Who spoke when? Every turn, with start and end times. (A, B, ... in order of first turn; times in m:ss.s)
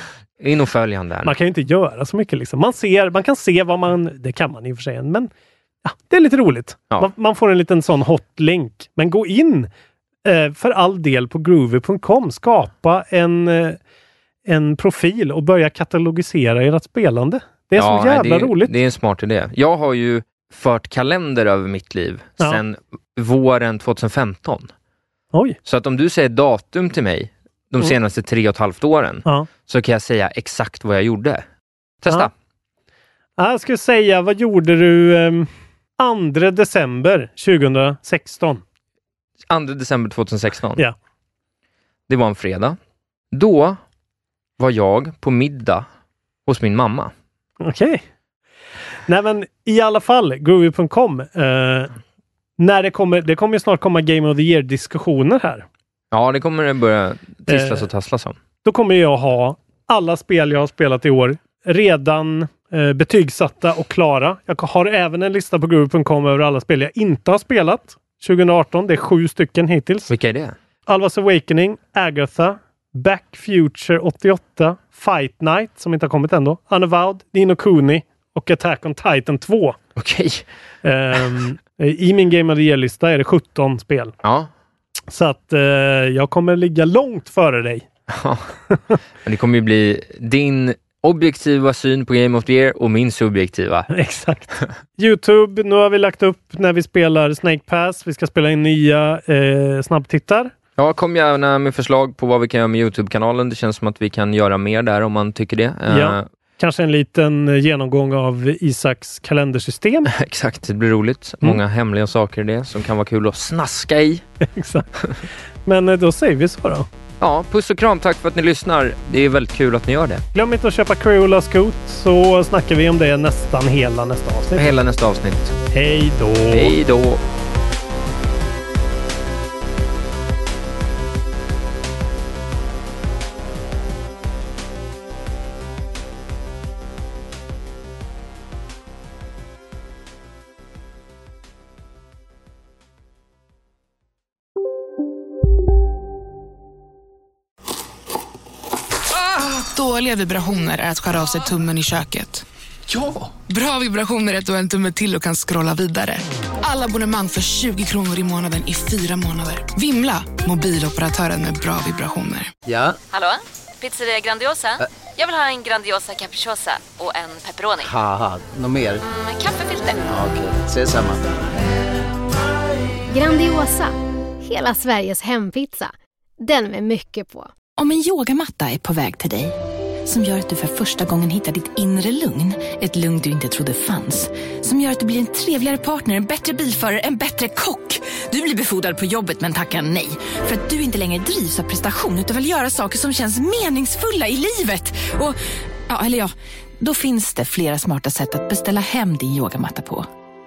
0:00.4-0:01.3 A
0:01.2-0:05.3 B
0:05.8-0:09.7 B
0:10.2-0:13.8 B
0:14.4-0:18.7 B
0:17.8-0:24.7 A
0:25.6-0:31.4 A
0:32.0-0:32.3 A
0:33.4-0:38.6 B
0:39.5-0:40.8 A
0:42.1-0:42.8 A
0:43.3-0:43.8 A
0:44.6-0:45.8 A
0:46.4-0:47.1 A
0:47.6-0:48.0 B
0:49.1-0:51.9 B
0:52.6-0:55.6 B
0:56.1-0:58.4 A
0:57.5-0:57.9 B
0:58.6-1:10.1 B
1:10.1-1:10.6 A
1:10.9-1:19.8 B
1:20.0-1:20.4 A
1:20.8-1:24.1 B
1:24.2-1:24.5 A
1:25.1-1:27.8 B
1:28.1-1:28.5 A
1:28.7-1:29.0 B
1:29.2-1:33.9 A
1:33.9-1:40.5 B
1:40.8-1:46.2 A
1:45.9-1:50.1 B
1:50.1-1:54.2 A
1:54.4-1:54.9 B
1:55.6-1:56.9 B
1:57.2-2:00.2 A
2:00.3-2:04.7 B
2:04.6-2:05.5 A
2:05.7-2:06.8 B
2:06.5-2:07.2 A
2:29.6-2:32.4 C
2:33.5-2:42.5 C
2:42.6-2:43.0 D
2:43.1-2:47.9 E
2:47.8-2:49.0 D
2:49.0-2:50.2 E
2:50.1-2:51.2 D
2:53.1-2:57.5 F
2:57.8-2:59.5 G
3:00.0-3:15.4 G
3:15.9-3:20.1 G